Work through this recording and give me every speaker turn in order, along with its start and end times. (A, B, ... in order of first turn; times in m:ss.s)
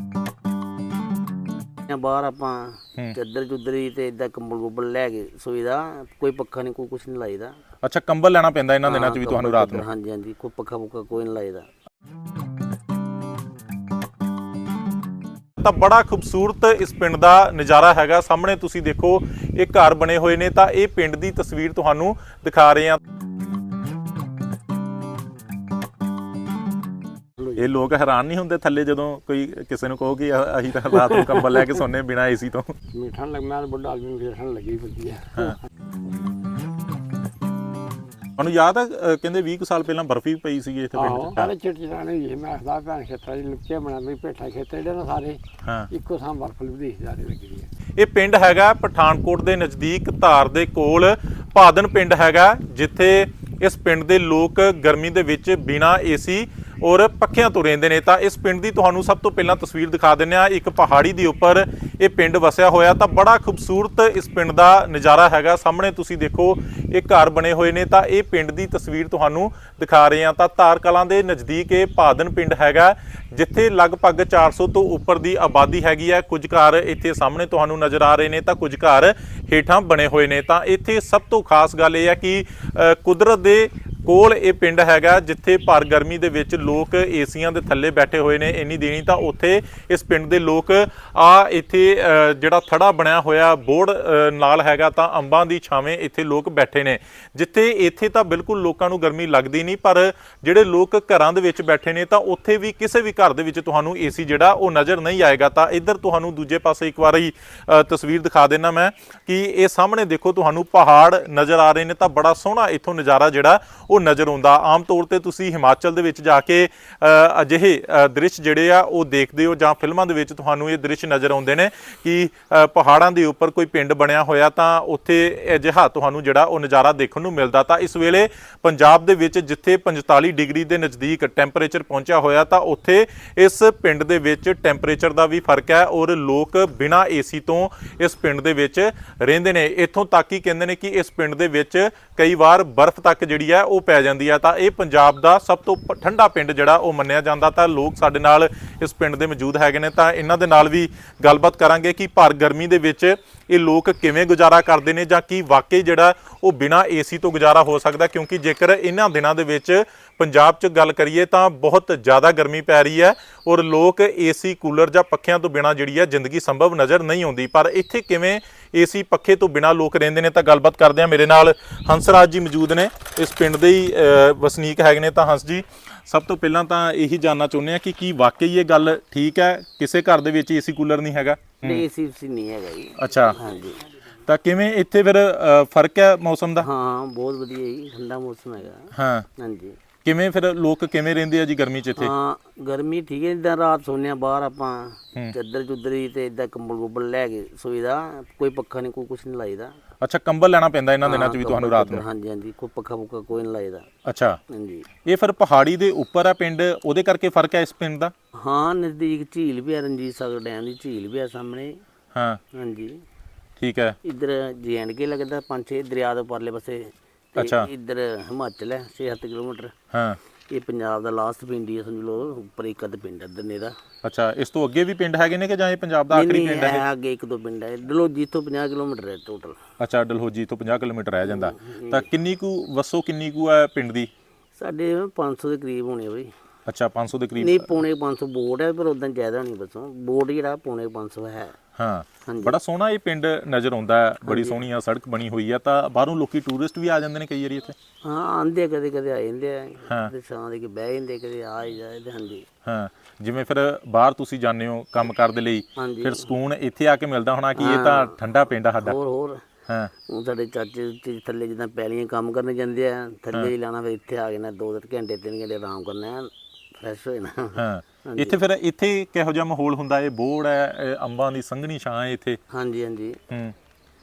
0:01.9-0:07.6 A
0:07.8-0:09.8 B
0:08.8-0:11.7 A
0:15.6-0:23.0 B
0:27.6-0:32.7 B
0:31.0-0:31.6 C
0:32.9-0:35.6 C
0:38.4-0:41.5 B
0:40.9-0:47.7 C
0:45.6-0:45.9 B
0:48.0-3:01.8 B
3:01.6-3:03.9 A
3:03.0-3:03.4 B
3:04.2-3:06.7 B
3:06.6-3:09.8 A
3:08.9-3:09.3 B
3:10.0-3:12.1 B
3:12.0-3:19.8 A
3:20.0-3:22.0 B
3:21.0-3:23.9 A
3:24.0-3:24.4 B
3:24.5-3:24.9 A
3:25.0-3:28.1 B
3:28.4-3:31.8 A
3:32.1-3:32.4 B
3:32.5-3:33.0 A
3:33.6-3:34.0 B
3:34.0-3:39.7 A
3:37.4-3:37.7 B
3:39.9-3:40.2 B
3:40.5-3:43.8 A
3:44.0-3:46.8 B
3:46.1-3:49.6 A
3:49.8-3:54.1 B
3:51.2-3:52.1 A
3:54.6-3:56.3 A
3:56.7-3:57.7 B
3:57.4-4:01.6 A
4:01.8-4:07.7 B
4:02.3-4:02.6 A
4:04.3-4:04.6 A
4:08.0-4:12.4 A
4:12.6-4:19.0 B
4:15.8-4:16.3 A
4:17.6-4:18.2 A
4:18.8-4:19.4 A
4:20.1-4:28.4 A
4:27.6-4:32.4 B
4:32.5-4:33.2 A
4:33.3-4:33.6 B